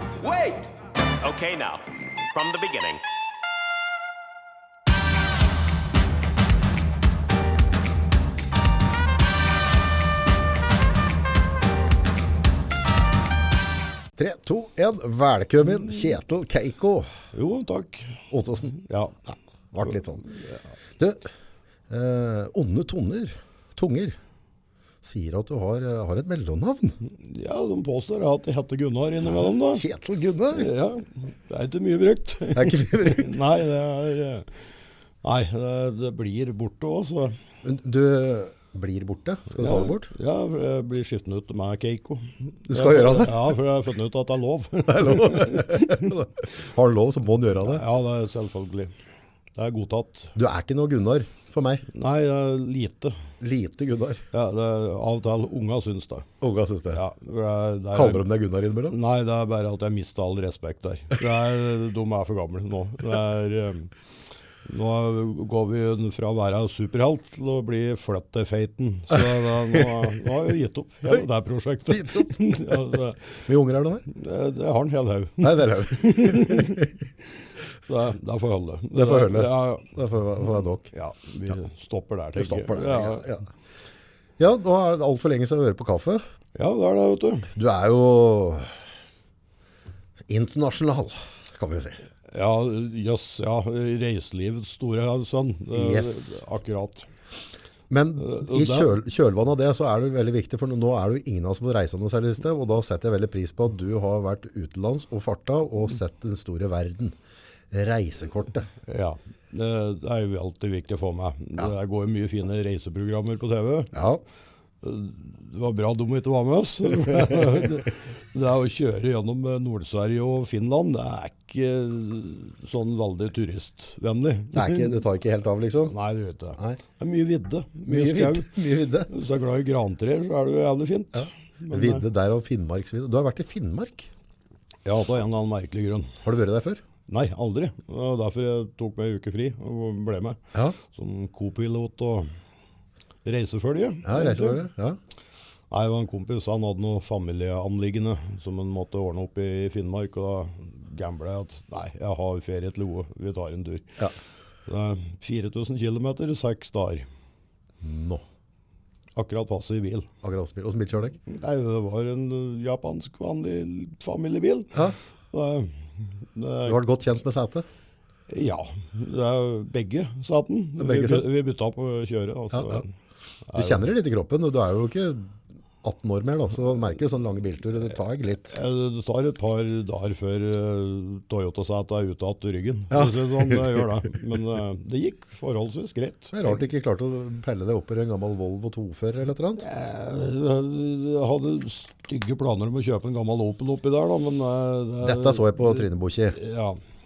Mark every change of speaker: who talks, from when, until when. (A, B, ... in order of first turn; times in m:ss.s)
0:00.2-0:03.0 A
0:14.2-0:17.1 B
0:17.3-0:19.2 C
0:18.3-0:18.8 B
0:19.7-0:20.3 B
0:21.0-0:21.3 B
0:21.9-0:24.2 B
0:25.0-0:27.0 B
0:27.0-0:29.8 C
0:29.7-0:30.7 B
0:30.5-0:34.7 C
0:32.5-0:33.4 B
0:35.2-0:37.4 C
0:37.6-0:40.1 B
0:39.6-0:46.1 C
0:42.7-0:43.5 B
0:44.9-0:47.8 B
0:47.6-0:48.9 C
0:49.5-0:50.3 C
0:50.4-0:51.8 B
0:51.9-0:53.2 C
0:53.4-0:54.2 B
0:54.3-0:56.3 C
0:56.4-0:57.0 B
0:56.9-0:58.2 C
0:57.9-0:59.0 B
0:58.9-1:03.9 C
1:04.6-1:13.4 C
1:09.1-1:09.9 B
1:11.9-1:14.0 B
1:14.1-1:16.9 C
1:15.4-1:16.9 B
1:17.8-1:19.9 C
1:18.9-1:20.9 B
1:20.9-1:23.3 C
1:22.3-1:23.4 B
1:24.4-1:26.2 B
1:26.6-1:27.5 C
1:27.5-1:28.8 B
1:30.3-1:32.0 B
1:32.3-1:37.1 C
1:35.7-1:36.4 B
1:37.9-1:47.2 B
1:38.2-1:38.9 C
1:47.7-1:48.7 B
1:48.8-1:54.0 C
1:53.9-1:54.2 B
1:54.8-2:04.9 C
2:04.5-2:05.9 B
2:05.9-2:12.0 C
2:07.9-2:09.1 B
2:11.2-2:14.1 B
2:14.8-2:16.1 C
2:16.2-2:16.8 B
2:17.1-2:22.3 C
2:23.2-2:24.6 C
2:24.0-2:25.0 B
2:25.7-2:34.0 C
2:34.7-2:37.1 C
2:37.8-2:38.2 B
2:39.2-2:40.1 C
2:40.2-2:41.2 B
2:41.2-2:46.8 C
2:46.6-2:47.6 B
2:48.3-2:52.9 C
2:50.8-2:51.2 B
2:52.5-2:52.8 B
2:53.5-2:53.8 C
2:53.5-2:58.6 B
2:58.4-3:06.6 C
3:02.9-3:03.9 B
3:06.3-3:09.6 B
3:09.6-3:16.8 C
3:15.0-3:16.4 B